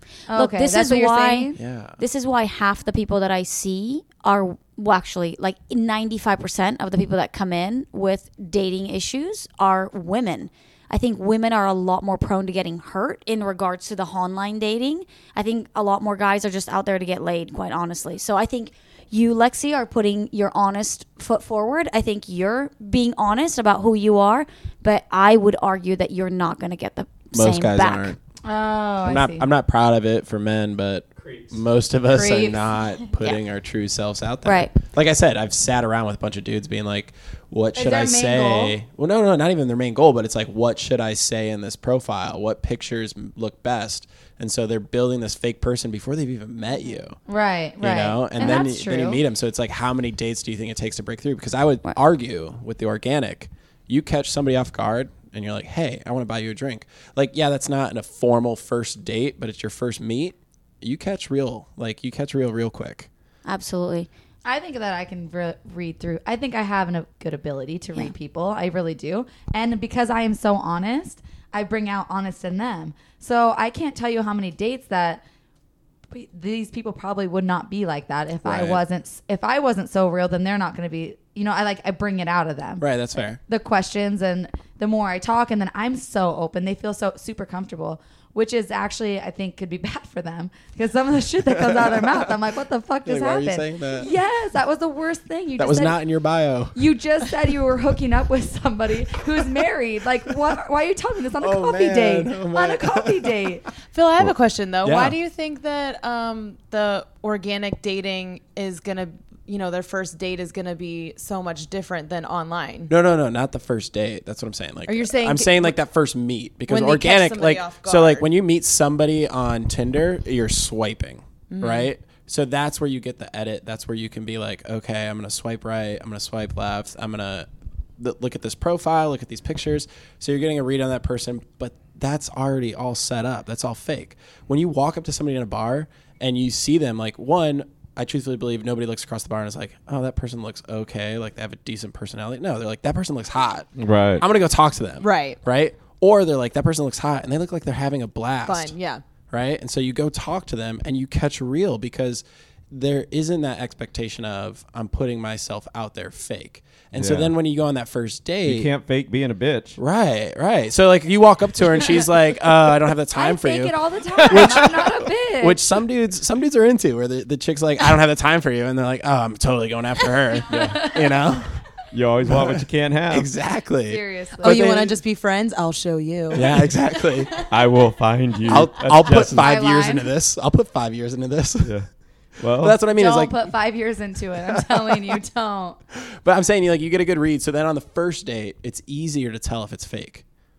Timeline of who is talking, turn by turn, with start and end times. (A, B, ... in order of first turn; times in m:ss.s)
0:00.3-0:01.6 A
0:00.3-0:28.2 B
0:01.6-0:02.0 C
0:27.3-0:28.2 C
0:28.4-0:29.5 A
0:29.0-0:47.2 C
0:32.1-0:32.7 A
0:34.4-0:34.7 B
0:37.8-0:38.8 A
0:47.3-0:49.2 A
0:47.8-1:03.1 C
1:03.4-1:04.1 B
1:04.4-1:15.2 A
1:16.1-1:22.8 A
1:18.4-1:18.8 C
1:22.8-1:23.4 C
1:23.5-1:36.0 A
1:31.9-1:32.2 C
1:33.1-1:34.1 C
1:35.6-1:36.8 C
1:36.8-1:43.6 A
1:41.4-1:43.4 C
1:43.9-1:52.9 D
1:44.8-1:45.2 C
1:52.9-2:07.5 C
1:54.9-1:55.8 D
1:56.7-1:58.3 D
2:01.5-2:01.9 D
2:08.0-2:28.7 C
2:23.8-2:24.2 E
2:25.0-2:25.4 D
2:28.4-2:29.0 D
2:29.3-2:38.7 C
2:36.9-2:37.4 E
2:38.4-2:39.8 E
2:39.8-2:43.8 C
2:43.2-2:45.6 A
2:44.2-2:44.6 E
2:44.3-2:44.9 C
2:45.4-2:51.6 C
2:50.5-2:50.9 E
2:51.9-2:53.3 E
2:52.3-2:55.0 C
2:53.9-2:54.6 A
2:54.4-2:56.7 D
2:56.3-2:57.4 C
2:57.4-2:59.6 E
2:58.5-3:01.7 C
2:59.3-3:00.1 A
3:01.6-3:02.8 E
3:02.6-3:03.5 C
3:03.0-3:05.8 A
3:04.6-3:05.0 C
3:06.1-3:10.2 C